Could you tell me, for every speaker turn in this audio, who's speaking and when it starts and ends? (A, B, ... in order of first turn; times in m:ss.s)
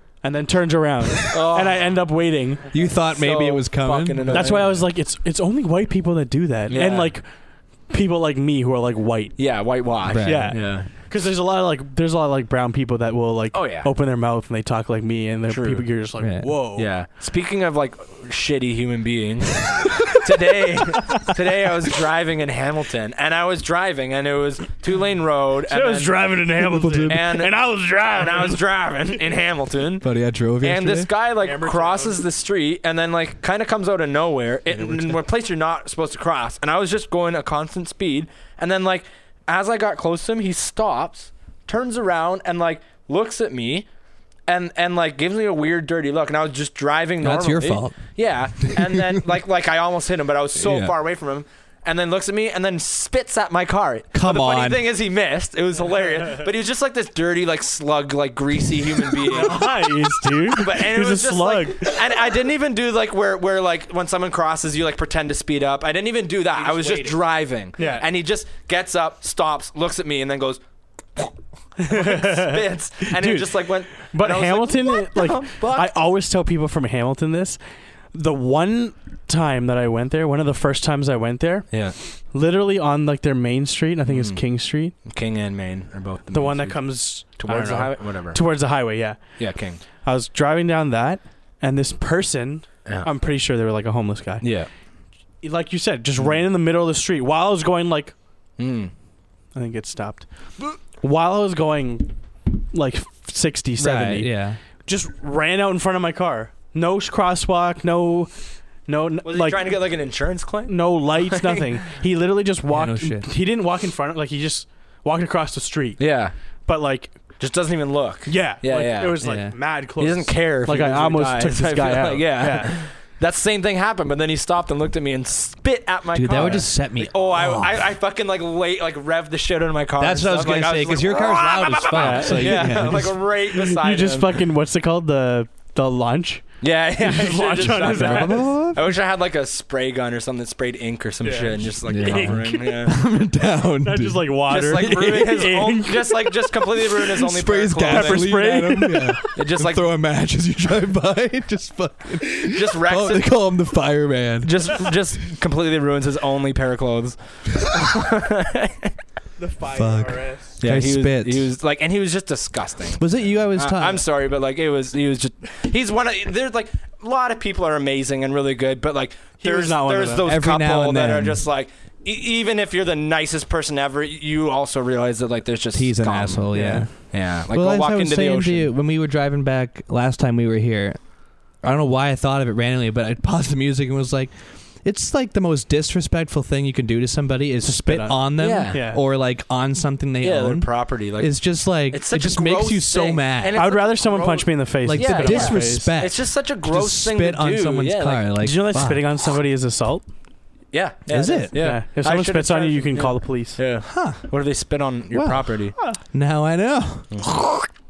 0:00.2-0:02.7 A
0:01.3-0:02.0 B
0:02.7-0:04.6 C
0:02.8-0:04.8 B
0:04.3-0:09.5 A
0:06.7-0:07.1 B
0:09.4-0:10.9 B
0:10.0-0:10.7 C
0:10.2-0:16.9 A
0:13.5-0:13.9 B
0:15.5-0:15.9 B
0:16.2-0:16.5 C
0:16.7-0:26.4 B
0:25.7-0:28.6 A
0:26.6-0:27.3 C
0:27.0-0:43.8 B
0:30.0-0:31.1 C
0:31.4-0:32.2 A
0:34.7-0:35.2 A
0:44.5-0:59.9 B
0:47.2-0:49.2 C
0:50.6-0:50.9 C
0:54.1-0:54.8 C
0:59.2-1:01.9 A
1:00.5-1:10.6 B
1:06.8-1:07.1 A
1:07.8-1:08.0 A
1:11.2-1:15.9 B
1:11.8-1:17.6 A
1:18.1-1:24.9 A
1:21.7-1:22.0 B
1:24.0-1:24.4 B
1:25.0-1:28.5 B
1:26.3-1:29.2 A
1:29.4-1:29.8 B
1:30.0-1:34.5 A
1:34.4-1:34.7 B
1:35.4-1:38.1 A
1:36.2-1:36.4 B
1:38.6-1:38.9 B
1:39.5-1:40.3 A
1:40.8-1:48.3 A
1:43.8-1:44.6 C
1:48.8-1:49.8 A
1:49.2-1:51.8 B
1:50.6-1:56.1 A
1:52.7-1:53.3 C
1:56.0-1:56.3 B
1:56.6-1:57.2 A
1:57.4-2:14.4 B
1:58.2-2:02.8 A
1:59.2-1:59.6 C
2:06.1-2:07.8 C
2:10.0-2:13.2 C
2:11.9-2:18.5 A
2:16.6-2:22.9 B
2:17.8-2:18.8 C
2:21.2-2:22.9 A
2:21.9-2:25.5 C
2:23.8-2:27.0 A
2:24.5-2:28.5 B
2:27.2-2:34.9 C
2:27.8-2:29.3 A
2:29.2-2:29.9 B
2:32.4-2:33.4 B
2:34.4-2:38.9 B
2:39.4-2:40.6 A
2:39.7-2:41.5 C
2:40.6-2:58.7 B
2:43.0-2:44.0 C
2:49.4-2:50.2 A
2:50.2-2:51.4 C
2:55.7-3:13.6 C
2:56.5-2:56.9 A
3:07.6-3:09.0 A
3:08.4-3:08.8 B
3:10.2-3:18.3 B
3:13.5-3:15.9 A
3:14.8-3:19.1 C
3:18.4-3:20.1 A
3:20.7-3:25.8 B
3:21.1-3:21.6 C
3:21.5-3:23.6 A
3:23.8-3:24.3 C
3:25.1-3:27.7 C
3:27.1-3:27.4 B